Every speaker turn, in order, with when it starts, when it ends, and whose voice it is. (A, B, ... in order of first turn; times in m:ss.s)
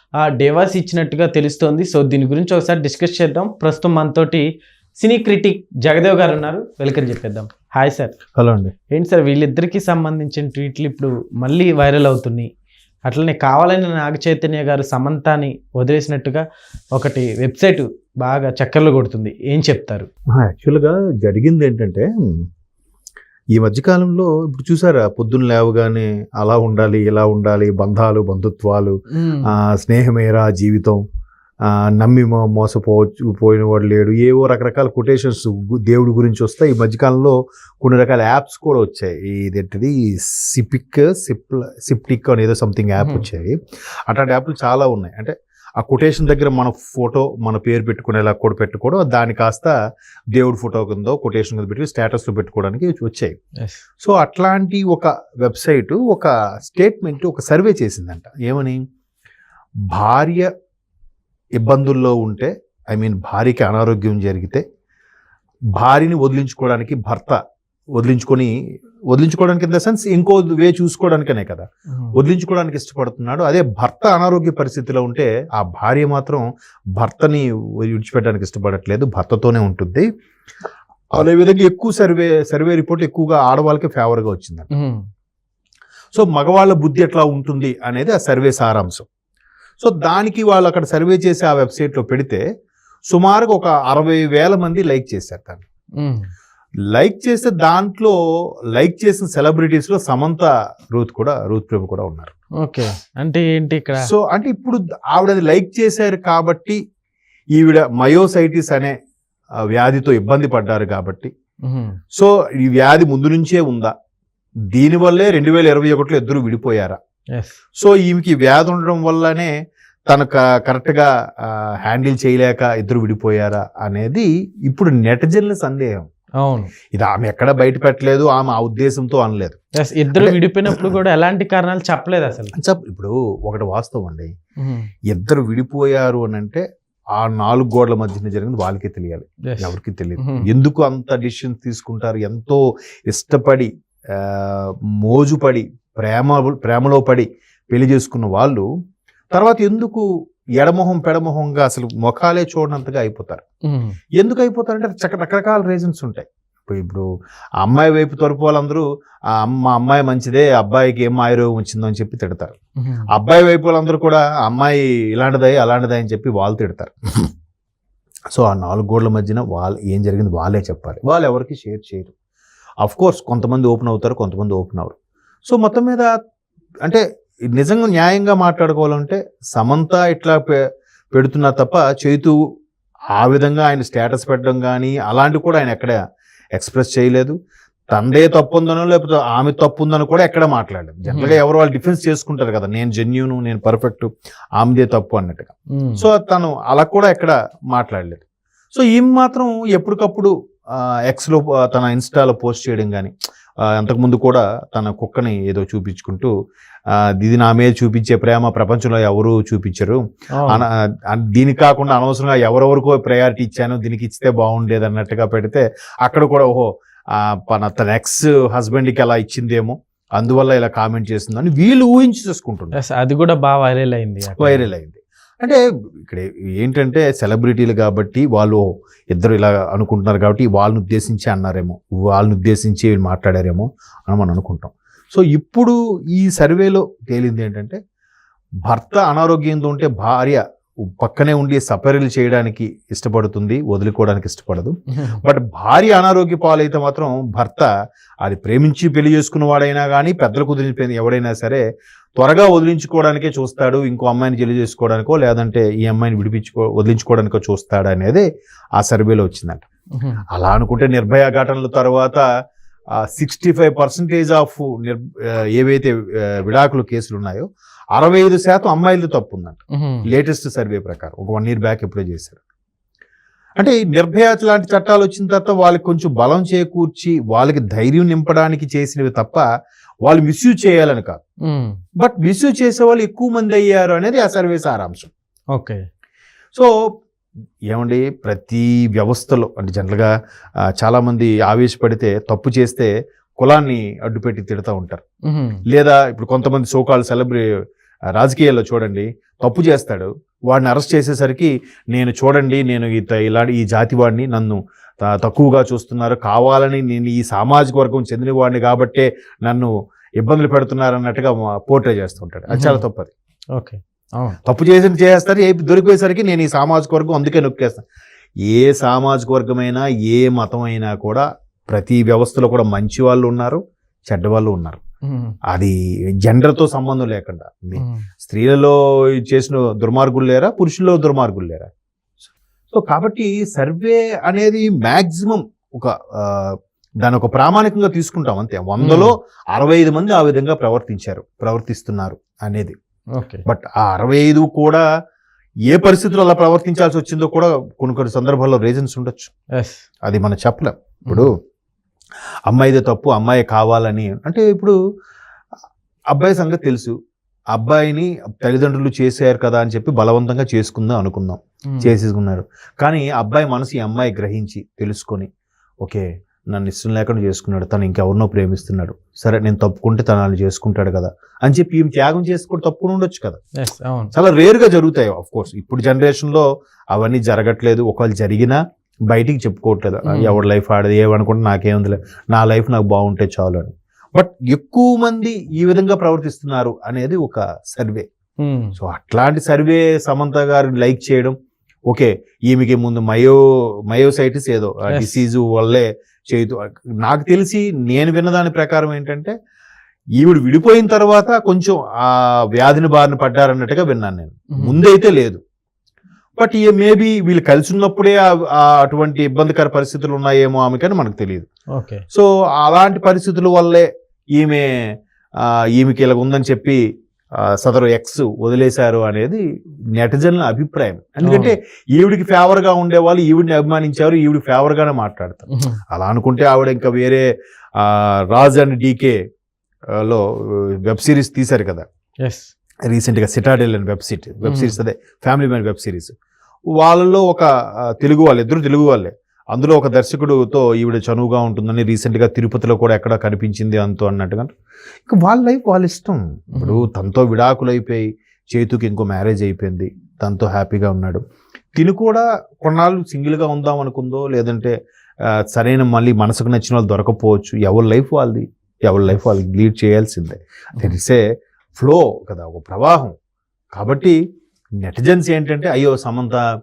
0:00.3-0:04.5 A
0:05.0-0:08.2 A
0:08.4-0:08.7 B
0:08.9-0:12.5 A
0:13.0-0:20.1 A
0:20.3-0:22.5 B
0:23.6-0:29.0 B
0:29.2-0:29.5 A
0:29.5-0:31.0 B
0:31.7-0:43.6 B
0:43.0-0:43.3 A
0:44.1-0:49.8 B
0:50.3-0:53.4 B
0:54.0-0:58.8 B
0:59.9-1:00.5 B
1:01.6-1:04.6 B
1:05.8-1:07.4 B
1:08.0-1:08.5 B
1:09.1-1:20.1 B
1:11.9-1:12.2 A
1:21.1-1:24.7 B
1:24.7-1:25.0 A
1:26.1-1:29.1 B
1:29.8-1:32.4 B
1:33.1-1:35.6 B
1:36.0-1:36.3 A
1:36.9-1:38.2 B
1:38.8-1:42.3 B
1:42.6-1:44.1 A
1:44.0-1:46.8 B
1:47.6-1:48.9 B
1:49.7-1:51.3 B
1:51.7-1:52.0 A
1:52.1-1:53.9 B
1:54.7-1:57.0 B
1:57.8-1:59.5 B
2:00.1-2:06.1 B
2:06.4-2:06.7 A
2:06.9-2:09.6 B
2:09.8-2:12.5 A
2:10.1-2:10.9 B
2:12.6-2:14.3 B
2:14.6-2:14.9 A
2:15.1-2:16.6 B
2:17.2-2:28.7 B
2:19.5-2:20.5 A
2:29.3-2:30.0 B
2:30.6-2:33.4 B
2:33.7-2:34.0 A
2:34.2-2:37.1 B
2:37.6-2:42.6 B
2:42.8-2:43.1 A
2:43.1-2:47.3 B
2:48.3-2:52.1 B
2:52.8-2:55.0 B
2:55.5-2:56.1 B
2:57.5-3:00.6 B
3:01.1-3:02.4 B
3:03.2-3:06.0 B
3:06.6-3:07.4 B
3:07.9-3:26.3 B
3:11.1-3:11.4 A
3:15.8-3:16.0 A
3:26.9-3:42.8 B
3:30.4-3:30.6 A
3:42.7-3:44.7 A
3:44.4-3:57.8 B
3:58.7-4:07.7 B
4:04.9-4:05.2 A
4:08.2-4:11.6 B
4:12.2-4:18.2 B
4:18.8-4:19.6 B
4:20.0-4:20.2 A
4:20.3-4:22.2 B
4:23.0-4:32.4 B
4:29.7-4:30.1 A
4:33.6-4:39.4 B
4:40.0-4:41.2 B
4:41.5-4:41.8 A
4:42.0-4:45.1 B
4:45.5-4:45.8 A
4:47.7-4:50.1 B
4:50.8-4:55.0 B
4:55.3-4:55.6 A
4:55.7-4:57.4 B
4:58.2-5:13.1 B
5:12.5-5:12.8 A
5:13.6-5:14.4 A
5:14.5-5:17.8 B
5:18.5-5:24.8 B
5:25.0-5:25.4 A
5:26.2-5:31.7 B
5:27.8-5:28.1 A
5:32.7-5:42.8 B
5:38.8-5:39.1 A
5:43.2-5:43.4 A
5:43.5-5:44.8 B
5:45.7-5:49.3 B
5:49.6-5:49.8 A
5:50.1-5:51.3 B
5:52.5-5:54.8 B
5:56.1-5:56.9 B
5:57.5-6:05.3 B
6:01.7-6:01.9 A
6:05.8-6:13.4 B
6:13.6-6:14.1 A
6:14.2-6:18.6 B
6:19.1-6:28.1 B
6:20.1-6:20.4 A
6:28.4-6:28.8 A
6:28.8-6:31.4 B
6:31.9-6:33.4 B
6:33.9-6:39.3 B
6:34.9-6:35.2 A
6:40.2-6:45.4 B
6:44.6-6:44.8 A
6:46.4-6:51.5 B
6:51.8-6:52.0 A
6:52.1-6:54.7 B
6:55.4-6:56.8 B
6:57.6-6:59.4 B
7:00.0-7:07.3 B
7:01.2-7:01.6 A
7:05.5-7:05.8 A
7:07.8-7:09.2 B
7:10.0-7:11.9 B
7:12.2-7:12.5 A
7:12.9-7:16.1 B
7:14.4-7:14.8 A
7:16.7-7:24.5 B
7:25.1-7:31.2 B
7:26.6-7:26.9 A
7:31.7-7:34.7 B
7:35.5-7:41.2 B
7:41.8-7:43.1 B
7:43.8-7:44.2 B
7:44.8-7:46.4 B